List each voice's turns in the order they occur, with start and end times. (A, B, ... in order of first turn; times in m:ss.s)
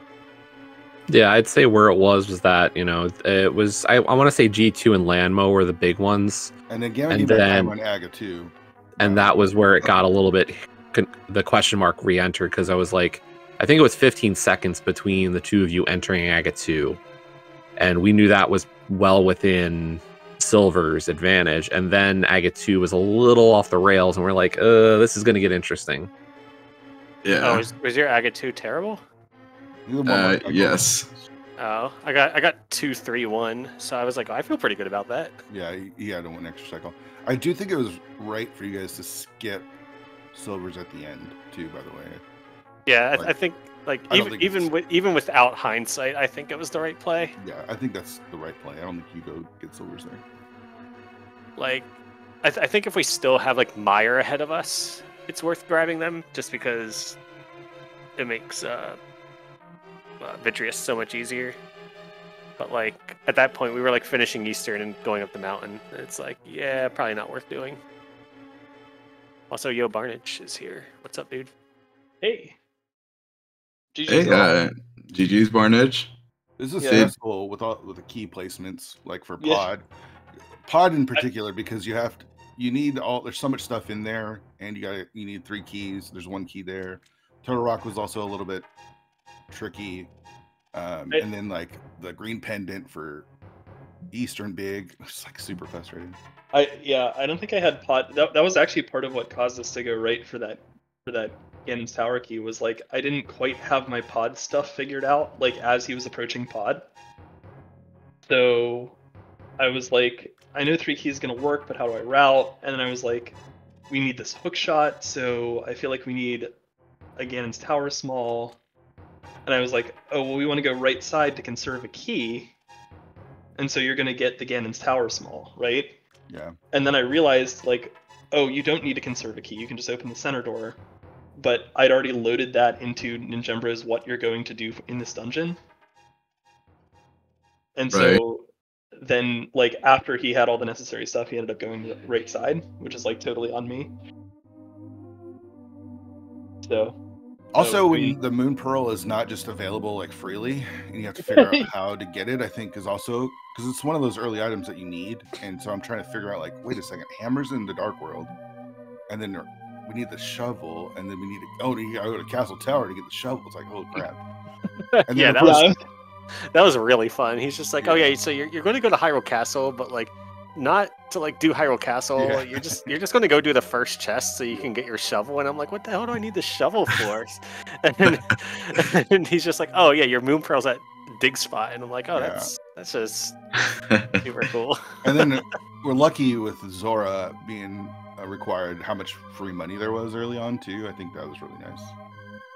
0:01.1-0:06.5 A
0:06.7-0:09.9 B
0:07.1-0:07.7 A
0:09.0-0:17.0 A
0:17.8-0:26.1 A
0:27.2-0:27.6 C
0:27.4-0:29.0 D
0:29.8-0:30.8 B
0:30.0-0:31.1 C
0:31.6-0:35.4 D
0:35.5-0:39.7 B
0:40.3-0:42.2 B
0:42.9-0:47.3 D
0:44.1-0:44.7 B
0:47.4-0:50.2 B
0:51.6-0:57.2 D
0:58.2-0:59.0 D
1:00.2-1:01.6 D
1:02.6-1:07.8 D
1:09.5-1:11.5 D
1:12.2-1:12.6 E
1:13.9-1:14.5 E
1:14.1-1:16.1 C
1:16.6-1:19.9 B
1:16.8-1:17.1 E
1:19.4-1:19.7 E
1:20.6-1:28.7 B
1:29.5-1:30.1 B
1:30.7-1:33.3 B
1:34.1-1:36.2 B
1:36.5-1:46.8 E
1:48.2-1:49.0 E
1:49.6-1:53.4 E
1:53.9-1:56.5 E
1:57.2-1:58.6 E
1:59.4-2:02.5 E
2:03.6-2:06.0 E
2:06.3-2:06.6 B
2:06.7-2:10.8 E
2:11.3-2:15.6 E
2:17.8-2:23.9 E
2:17.9-2:18.2 C
2:26.6-2:27.0 E
2:27.5-2:38.3 B
2:27.6-2:28.2 E
2:31.3-2:31.7 E
2:39.1-2:44.2 B
2:44.9-2:45.7 D
2:45.1-2:45.8 B
2:45.4-2:45.8 E
2:46.5-3:03.4 D
2:47.8-2:48.1 B
2:52.2-2:52.8 B
3:02.1-3:02.5 B
3:04.2-3:05.3 D
3:05.0-3:11.9 B